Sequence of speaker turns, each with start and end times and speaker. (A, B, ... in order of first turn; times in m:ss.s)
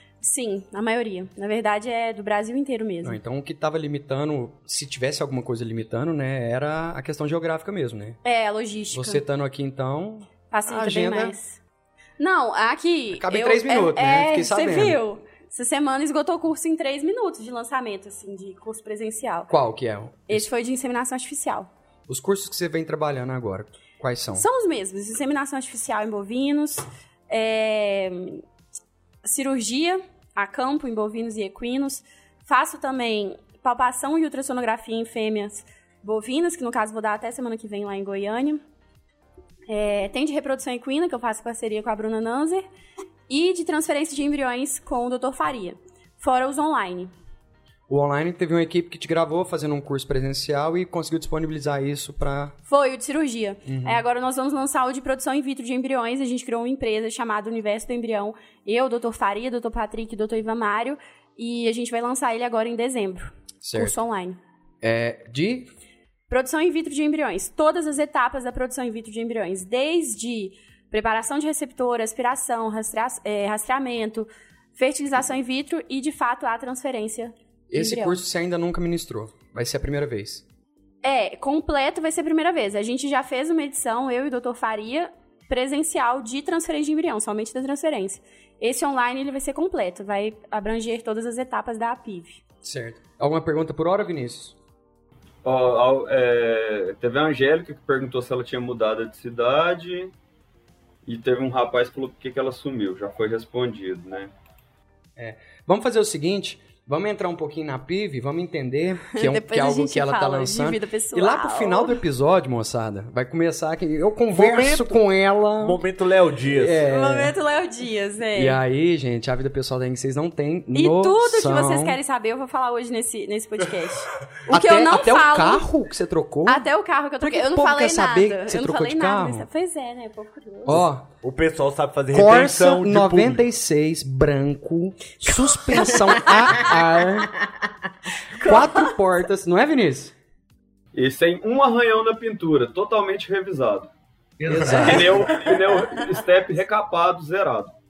0:00.2-0:03.2 A
0:03.0-0:08.2 B
0:08.2-0:09.2 A
0:08.9-0:11.4 B
0:10.5-0:11.6 A
0:12.2-0:19.5 A
0:13.1-0:15.0 B
0:19.5-0:20.5 B
0:20.3-0:21.7 A
0:22.1-0:24.5 B
0:24.3-0:28.4 A
0:29.2-0:38.6 A
0:39.7-0:42.6 A
0:43.3-0:47.1 A
0:47.9-0:52.5 B
0:52.7-1:04.4 A
0:53.6-0:54.0 B
1:03.6-1:04.0 B
1:04.8-1:05.7 B
1:06.3-1:18.2 A
1:17.7-1:20.4 B
1:21.0-1:32.4 A
1:32.6-1:34.6 B
1:35.4-1:40.1 C
1:41.0-1:44.3 C
1:45.2-1:55.8 B
1:49.1-1:52.0 A
1:54.3-1:54.9 D
1:55.6-1:56.9 D
1:56.5-1:57.3 B
1:56.8-1:58.6 A
1:58.3-2:02.0 B
2:00.7-2:05.7 A
2:04.5-2:06.6 B
2:06.4-2:10.9 A
2:07.2-2:09.5 B
2:10.6-2:11.1 B
2:11.2-2:13.4 D
2:12.1-2:17.4 B
2:15.2-2:16.7 A
2:18.3-2:18.9 A
2:18.4-2:20.1 B
2:20.9-2:23.9 C
2:24.4-2:25.7 B
2:24.6-2:27.7 C
2:24.6-2:25.1 A